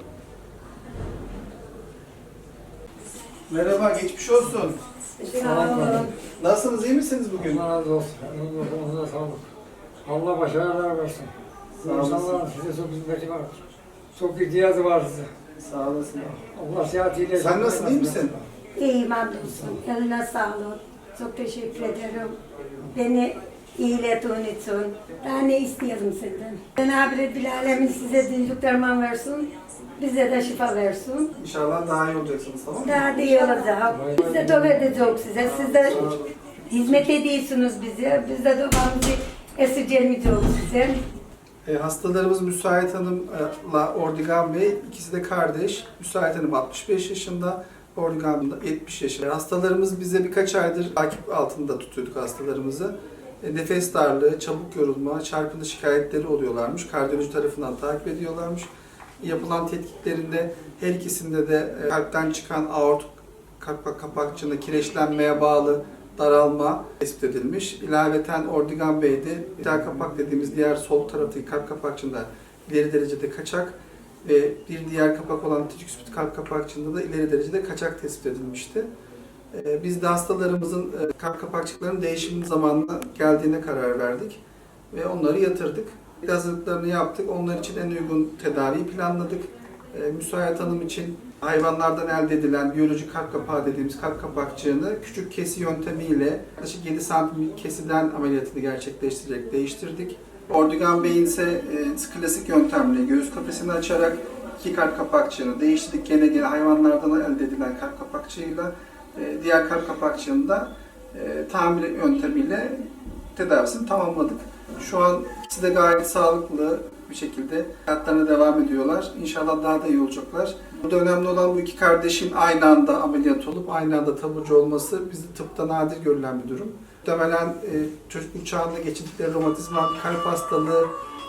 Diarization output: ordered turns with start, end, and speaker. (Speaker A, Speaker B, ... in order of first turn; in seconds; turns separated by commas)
Speaker A: 3.5-4.8, Speaker B: 5.2-6.1, Speaker C: 5.4-6.1, Speaker A: 6.4-7.7, Speaker C: 7.3-9.4, Speaker C: 10.1-13.6, Speaker A: 11.8-12.4, Speaker C: 14.1-15.3, Speaker A: 15.6-16.4, Speaker C: 16.3-18.5, Speaker A: 17.4-18.4, Speaker B: 18.8-22.4, Speaker C: 19.4-19.8, Speaker B: 22.9-31.3, Speaker A: 31.4-33.0, Speaker B: 32.8-36.1, Speaker C: 33.9-35.1, Speaker A: 35.5-36.3, Speaker B: 36.7-41.0, Speaker A: 41.6-78.9, Speaker A: 79.5-130.9